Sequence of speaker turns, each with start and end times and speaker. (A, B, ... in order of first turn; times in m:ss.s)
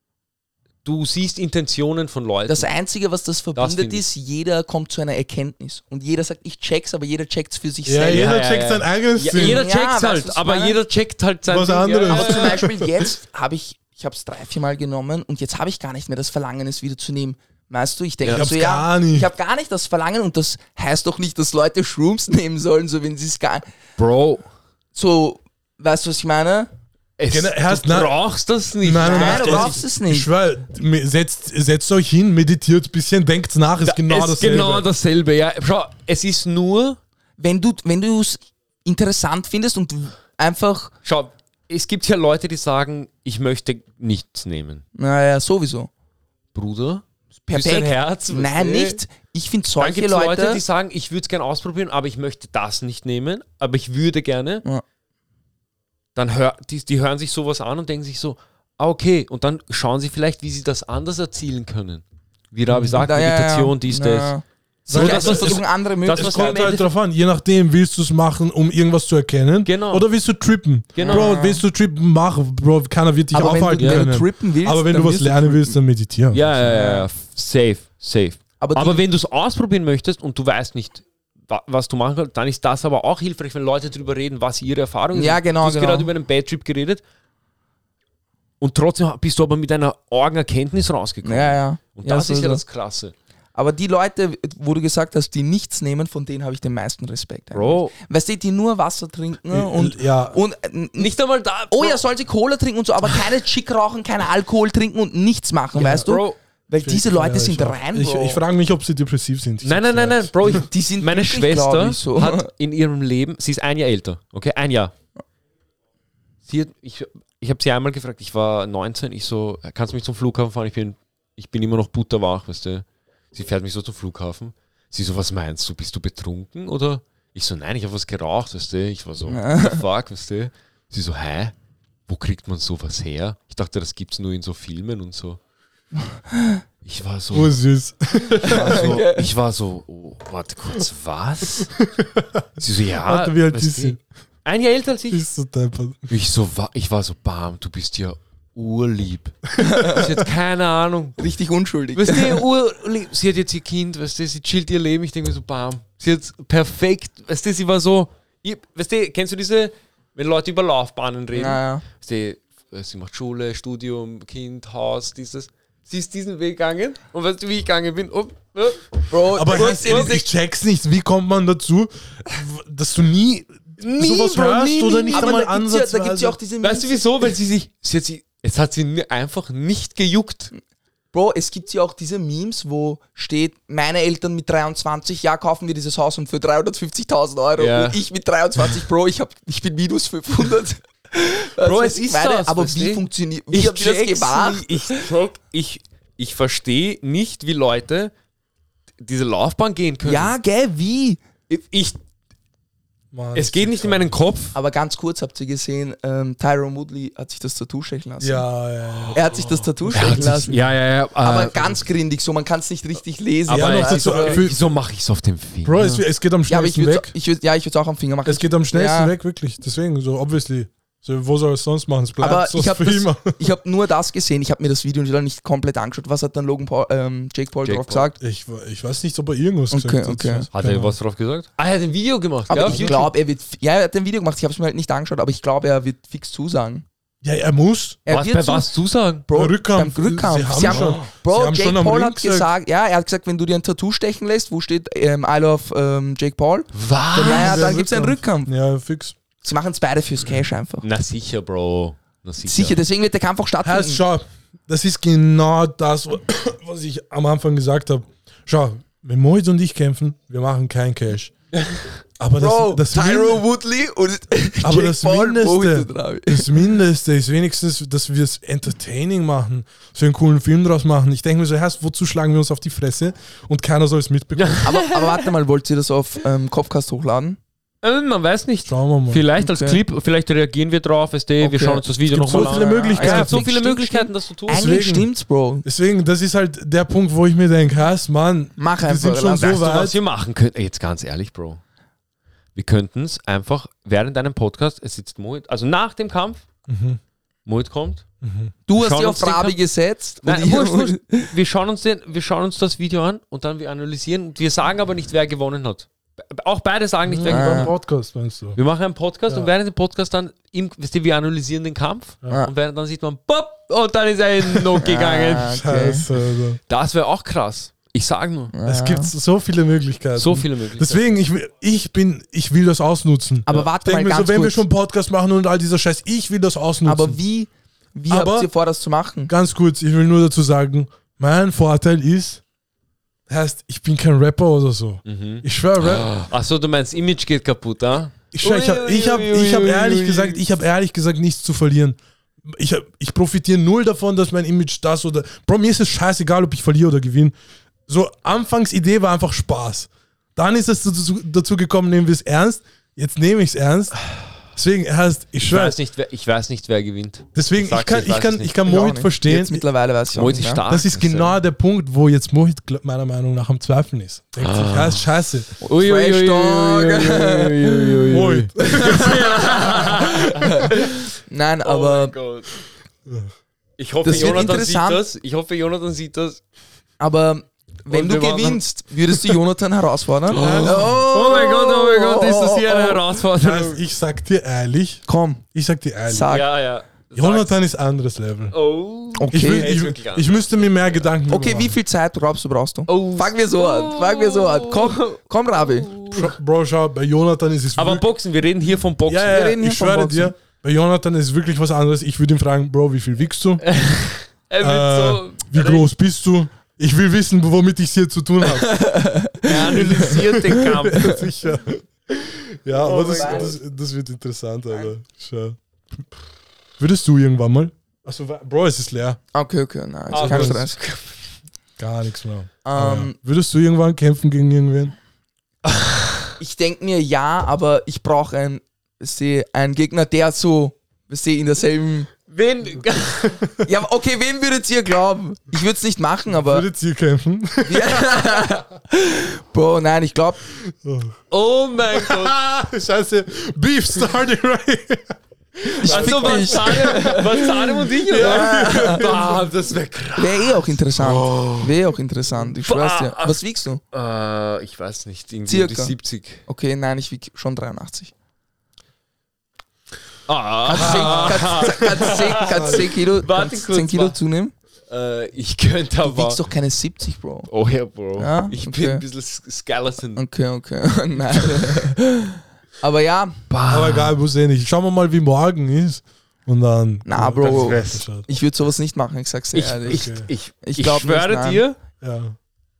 0:00.8-0:02.7 A
0:02.5-0:08.4 B
0:03.6-0:04.0 A
0:07.8-0:09.6 C
0:08.1-0:12.6 A
0:09.3-0:10.8 B
0:11.5-0:13.1 C
0:12.1-0:23.6 B
0:18.3-0:19.3 C
0:24.0-0:24.4 A
0:24.9-0:26.7 B
0:27.2-0:29.8 A
0:27.3-0:28.2 C
0:28.8-0:34.8 C
0:29.0-0:30.3 B
0:33.8-0:37.0 A
0:37.4-0:40.9 B
0:41.0-0:44.8 A
0:45.0-0:45.9 B
0:46.5-0:49.0 A
0:47.5-0:50.6 B
0:49.8-0:54.6 A
0:56.1-1:04.3 A
1:02.7-1:03.0 C
1:03.0-1:06.8 B
1:04.8-1:06.8 A
1:04.9-1:16.5 C
1:09.6-1:10.0 A
1:10.9-1:11.3 A
1:11.0-1:11.6 B
1:13.3-1:15.8 B
1:13.8-1:14.1 A
1:16.3-1:27.0 A
1:16.6-1:17.1 B
1:18.6-1:19.0 B
1:25.1-1:26.1 B
1:28.6-1:33.1 A
1:31.2-1:32.6 B
1:33.5-1:41.1 B
1:37.5-1:37.9 A
1:39.5-1:40.4 C
1:41.0-1:42.0 A
1:41.7-1:48.4 B
1:45.8-1:46.1 C
1:45.8-1:46.4 A
1:46.8-1:50.6 C
1:49.6-1:54.9 A
1:50.5-1:52.5 B
1:56.4-2:11.5 A
2:09.3-2:09.8 B
2:12.1-2:15.4 A
2:16.3-2:16.6 B
2:16.8-2:17.6 A
2:17.3-2:19.0 C
2:18.4-2:21.7 A
2:18.4-2:19.2 B
2:21.6-2:24.0 C
2:22.6-2:25.2 A
2:25.1-2:26.1 C
2:26.1-2:31.2 A
2:29.6-2:30.1 B
2:29.6-2:30.2 C
2:31.2-2:32.4 B
2:32.0-2:50.2 A
2:41.3-2:41.8 B
2:49.1-2:50.2 B
2:49.4-2:56.4 C
2:53.8-2:55.4 A
2:55.1-2:57.0 B
2:56.6-3:00.5 A
3:01.1-3:15.1 B
3:07.6-3:08.0 A
3:11.6-3:18.1 A
3:19.0-3:20.3 A
3:20.0-3:21.2 B
3:21.5-3:22.0 A
3:23.1-3:24.2 C
3:23.3-3:24.6 A
3:24.5-3:28.4 B
3:28.2-3:30.6 C
3:29.1-3:30.6 B
3:29.9-3:31.8 A
3:31.2-3:34.5 B
3:33.5-3:35.8 A
3:33.5-3:34.6 C
3:35.6-3:37.1 C
3:35.8-3:39.1 B
3:38.2-3:43.4 C
3:42.2-3:48.2 B
3:47.6-3:48.1 A
3:48.2-3:50.9 C
3:49.7-3:50.5 B
3:50.5-3:53.0 A
3:52.5-3:56.8 B
3:52.6-3:53.0 C
3:57.2-3:58.0 C
3:58.1-3:58.7 B
3:58.1-3:59.2 A
3:59.3-4:06.7 B
3:59.3-4:02.5 C
4:00.6-4:01.0 A
4:06.7-4:07.7 A
4:07.1-4:09.2 C
4:07.2-4:08.5 B
4:09.4-4:10.8 B
4:10.8-4:12.8 A
4:12.4-4:14.0 B
4:13.6-4:21.3 C
4:22.2-4:23.4 C
4:22.4-4:26.6 B
4:24.6-4:34.7 C
4:34.4-4:35.3 A
4:34.6-4:37.4 B
4:37.8-4:44.6 A
4:38.6-4:39.2 C
4:39.4-4:39.8 B
4:41.4-4:45.6 B
4:42.0-4:43.5 C
4:44.5-4:45.1 C
4:45.6-4:50.0 C
4:48.6-4:49.7 B
4:49.5-4:51.6 A
4:52.5-4:56.4 A
4:56.7-4:57.0 C
4:57.4-4:58.0 A
4:58.2-4:58.5 C
4:58.7-5:01.3 B
4:58.8-4:59.6 A
5:00.2-5:07.7 A
5:07.1-5:08.6 C
5:07.2-5:07.7 B
5:08.6-5:15.6 A
5:14.8-5:16.0 B
5:15.4-5:16.6 C
5:16.7-5:18.5 A
5:18.5-5:19.1 B
5:18.6-5:27.2 C
5:20.2-5:21.0 A
5:23.4-5:24.6 B
5:26.8-5:29.3 B
5:28.1-5:28.5 C
5:29.3-5:32.4 C
5:33.3-5:36.1 C
5:35.0-5:40.4 A
5:38.3-5:47.3 C
5:47.9-5:54.0 C
5:54.5-5:55.8 C
5:55.5-5:58.5 A
5:57.3-5:59.6 C
5:58.6-6:00.6 B
6:00.1-6:01.4 A
6:00.7-6:05.5 C
6:04.4-6:05.1 A
6:05.6-6:08.0 B
6:05.6-6:11.0 A
6:08.1-6:09.9 C
6:08.6-6:12.1 B
6:11.6-6:12.5 A
6:13.8-6:16.4 A
6:14.0-6:15.0 B
6:17.0-6:23.0 B
6:17.9-6:19.3 A
6:20.3-6:23.8 A
6:20.3-6:21.0 C
6:23.4-6:26.3 C
6:25.1-6:25.4 B
6:26.1-6:26.5 B
6:26.3-6:27.5 A
6:27.1-6:28.6 C
6:28.5-6:31.0 A
6:29.2-6:29.7 B
6:29.3-6:31.7 C
6:31.3-6:35.9 B
6:32.9-6:36.3 A
6:36.1-6:38.0 C
6:37.8-6:39.5 A
6:39.1-6:43.7 C
6:39.3-6:40.3 B
6:43.6-6:45.9 A
6:44.6-6:48.8 C
6:48.4-6:51.2 B
6:49.4-6:51.3 A
6:49.8-6:56.0 C
6:52.8-6:53.5 B
6:52.8-6:53.5 A
6:56.8-6:59.2 C
6:59.3-7:00.8 B
7:00.1-7:01.1 A
7:00.2-7:00.6 C
7:01.8-7:05.0 C
7:02.6-7:03.1 B
7:05.6-7:06.1 A
7:06.4-7:12.1 B
7:12.3-7:13.4 A
7:12.8-7:13.6 C
7:13.6-7:16.7 B
7:16.3-7:18.3 C
7:17.6-7:20.4 B
7:20.6-7:21.2 C
7:21.3-7:22.6 A
7:21.9-7:29.5 C
7:25.7-7:27.4 B
7:25.8-7:31.9 A
7:28.1-7:29.1 B
7:30.2-7:33.8 B
7:32.4-7:33.4 A
7:33.9-7:36.4 A
7:35.5-7:35.9 B
7:36.4-7:38.1 B
7:40.3-7:44.2 A
7:40.7-7:44.5 B
7:40.7-7:42.8 C
7:44.9-7:46.4 A
7:46.0-7:47.5 B
7:47.5-7:50.2 A
7:48.2-7:49.0 B
7:50.2-7:53.4 B
7:51.4-7:51.7 A
7:53.5-7:54.1 A
7:53.7-7:58.2 C
7:57.0-8:00.1 B
7:57.4-7:58.0 A
7:59.5-8:01.8 A
7:59.9-8:00.3 C
8:00.6-8:01.6 B
8:02.0-8:02.4 C